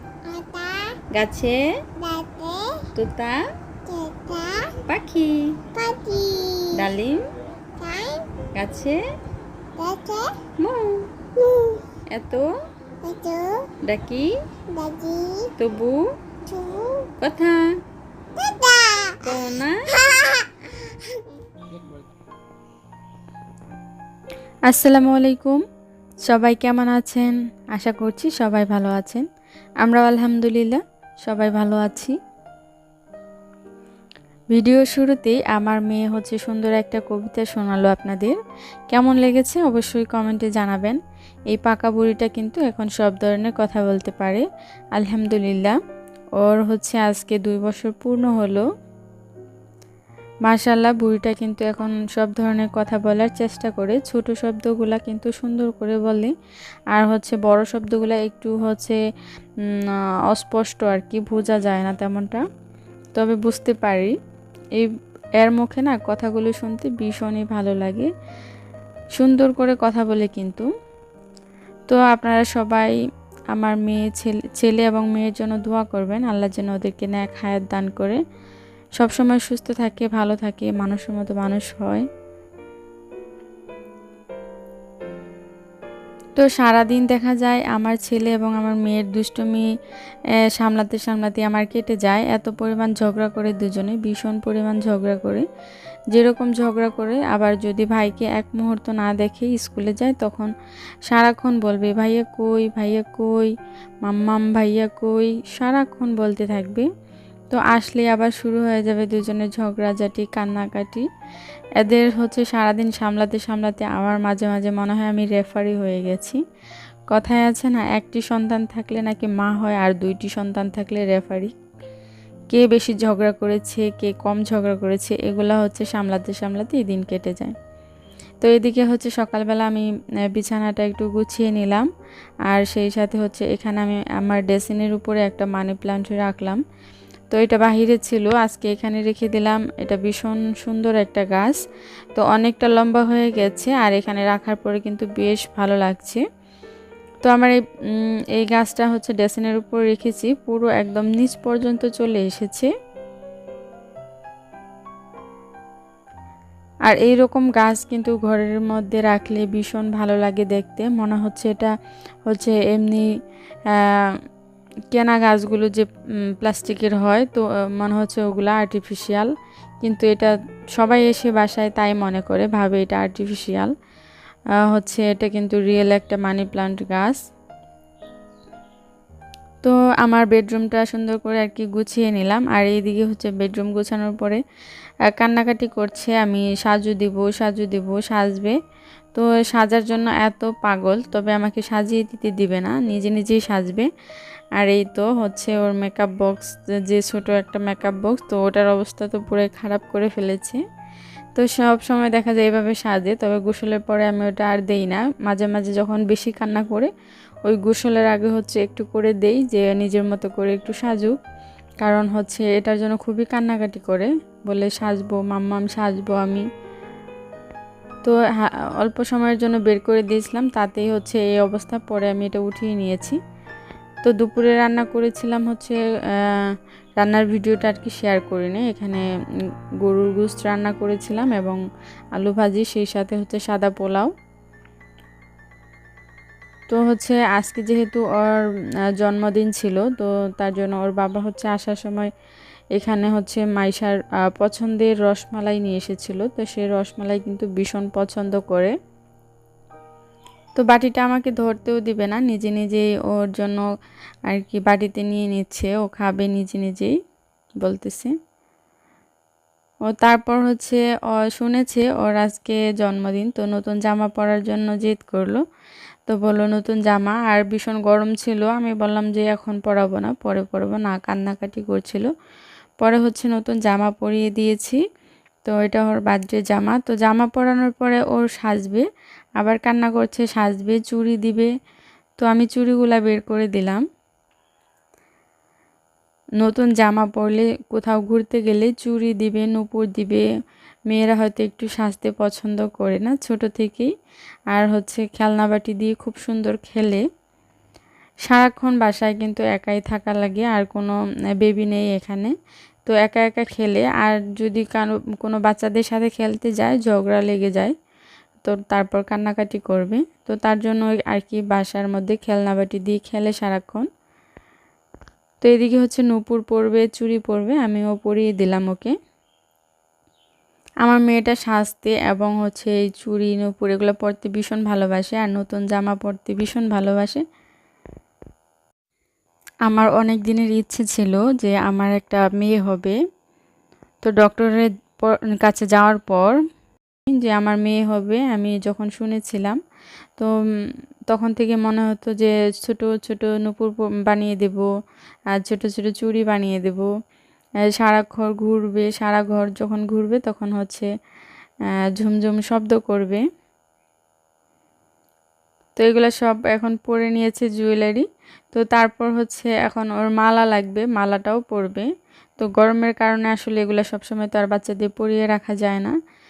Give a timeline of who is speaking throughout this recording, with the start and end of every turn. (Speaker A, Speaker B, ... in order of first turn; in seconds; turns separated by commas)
Speaker A: 0.2-1.0, Speaker B: 1.1-1.6, Speaker A: 2.0-2.9, Speaker B: 2.9-3.5, Speaker A: 3.9-4.8, Speaker B: 4.8-5.6, Speaker A: 5.7-6.8, Speaker B: 6.7-7.2, Speaker A: 7.8-8.3, Speaker B: 8.5-9.0, Speaker A: 9.8-10.5, Speaker B: 10.6-11.2, Speaker A: 11.3-11.9, Speaker B: 12.1-12.5, Speaker A: 13.0-13.7, Speaker B: 13.8-14.4, Speaker A: 14.7-15.5, Speaker B: 15.6-16.1, Speaker A: 16.4-17.1, Speaker B: 17.2-17.7, Speaker A: 18.4-19.3, Speaker B: 19.2-20.0, Speaker A: 19.9-21.3, Speaker B: 24.7-25.6, Speaker B: 26.3-29.2, Speaker B: 29.8-32.1, Speaker B: 34.5-38.4, Speaker B: 38.9-41.0, Speaker B: 41.5-44.4, Speaker B: 44.9-45.8, Speaker B: 46.4-48.6, Speaker B: 50.5-56.3, Speaker B: 56.9-59.0, Speaker B: 59.7-62.4, Speaker B: 63.1-64.1, Speaker B: 64.8-68.1, Speaker B: 69.2-70.7, Speaker B: 71.9-72.9, Speaker B: 73.5-78.2, Speaker B: 79.0-82.0, Speaker B: 86.4-89.6, Speaker B: 90.5-95.4, Speaker B: 96.1-100.5, Speaker B: 101.1-103.5, Speaker B: 104.0-106.9, Speaker B: 107.5-111.1, Speaker B: 111.8-116.4, Speaker B: 117.1-121.5, Speaker B: 122.5-127.5, Speaker B: 128.4-131.9, Speaker B: 132.5-136.6, Speaker B: 137.3-141.6, Speaker B: 142.1-146.2, Speaker B: 147.2-152.7, Speaker B: 156.9-161.7, Speaker B: 162.3-163.0, Speaker B: 163.7-164.2, Speaker B: 164.9-165.9, Speaker B: 166.4-169.3, Speaker B: 169.8-173.7, Speaker B: 174.7-177.2, Speaker B: 179.6-184.4, Speaker B: 185.1-188.5, Speaker B: 189.1-193.9, Speaker B: 194.6-200.6, Speaker B: 201.3-206.9, Speaker B: 207.4-211.2, Speaker B: 211.8-216.4, Speaker B: 218.0-223.2, Speaker B: 224.0-229.0, Speaker B: 229.8-231.6, Speaker B: 232.1-234.1, Speaker B: 236.7-238.4, Speaker B: 239.0-242.1, Speaker B: 242.8-248.7, Speaker B: 250.6-253.6, Speaker B: 254.3-256.9, Speaker B: 257.6-258.1, Speaker B: 259.9-265.4, Speaker B: 266.1-272.1, Speaker B: 272.8-274.8, Speaker B: 275.4-278.8, Speaker B: 279.4-281.5, Speaker B: 282.2-283.8, Speaker B: 286.4-290.2, Speaker B: 290.9-293.9, Speaker B: 294.5-297.0, Speaker B: 298.2-302.3, Speaker B: 302.9-307.7, Speaker B: 308.4-313.9, Speaker B: 315.4-318.9, Speaker B: 320.8-327.2, Speaker B: 329.6-333.0, Speaker B: 334.0-336.4, Speaker B: 337.1-339.6, Speaker B: 341.1-344.7, Speaker B: 345.4-346.9, Speaker B: 347.8-350.9, Speaker B: 351.9-353.2, Speaker B: 355.8-361.9, Speaker B: 362.4-365.9